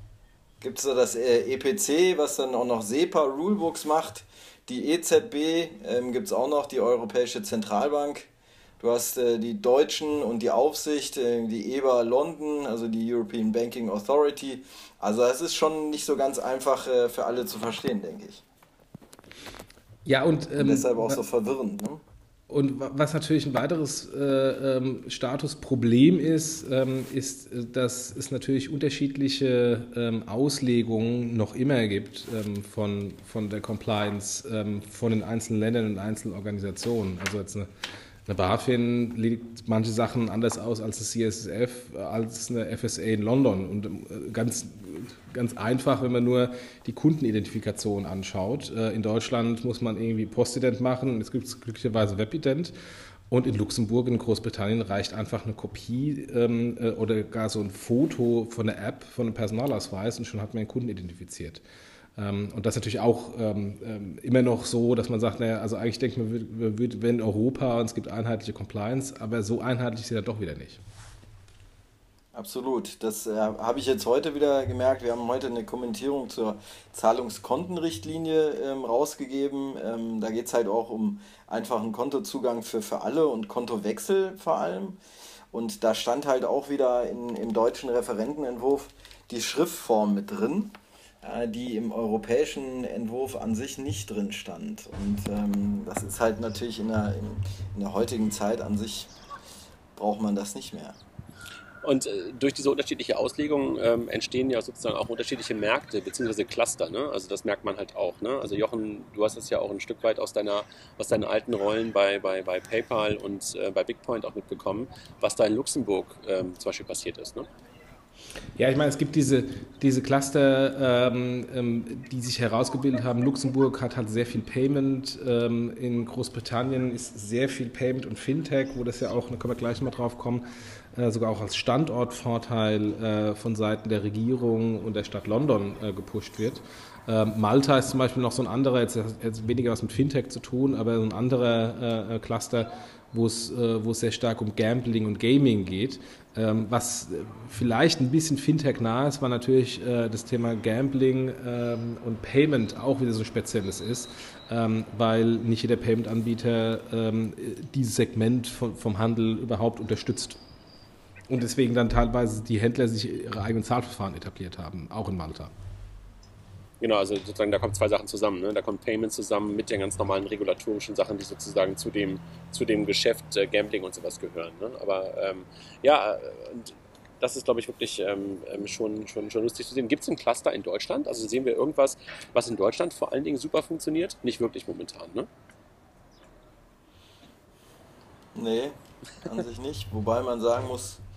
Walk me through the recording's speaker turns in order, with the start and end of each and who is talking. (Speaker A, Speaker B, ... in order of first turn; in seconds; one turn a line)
Speaker A: 0.6-8.3
Speaker A: 8.8-18.4
Speaker B: 20.0-21.2
Speaker A: 20.6-22.0
Speaker B: 22.5-37.7
Speaker B: 38.2-52.7
Speaker B: 53.3-61.6
Speaker B: 62.1-70.8
Speaker A: 72.3-85.0
Speaker A: 85.5-99.1
Speaker A: 100.0-101.0
Speaker C: 101.8-117.5
Speaker B: 118.5-160.4
Speaker B: 161.3-165.5
Speaker C: 166.8-185.3
Speaker A: 188.3-191.0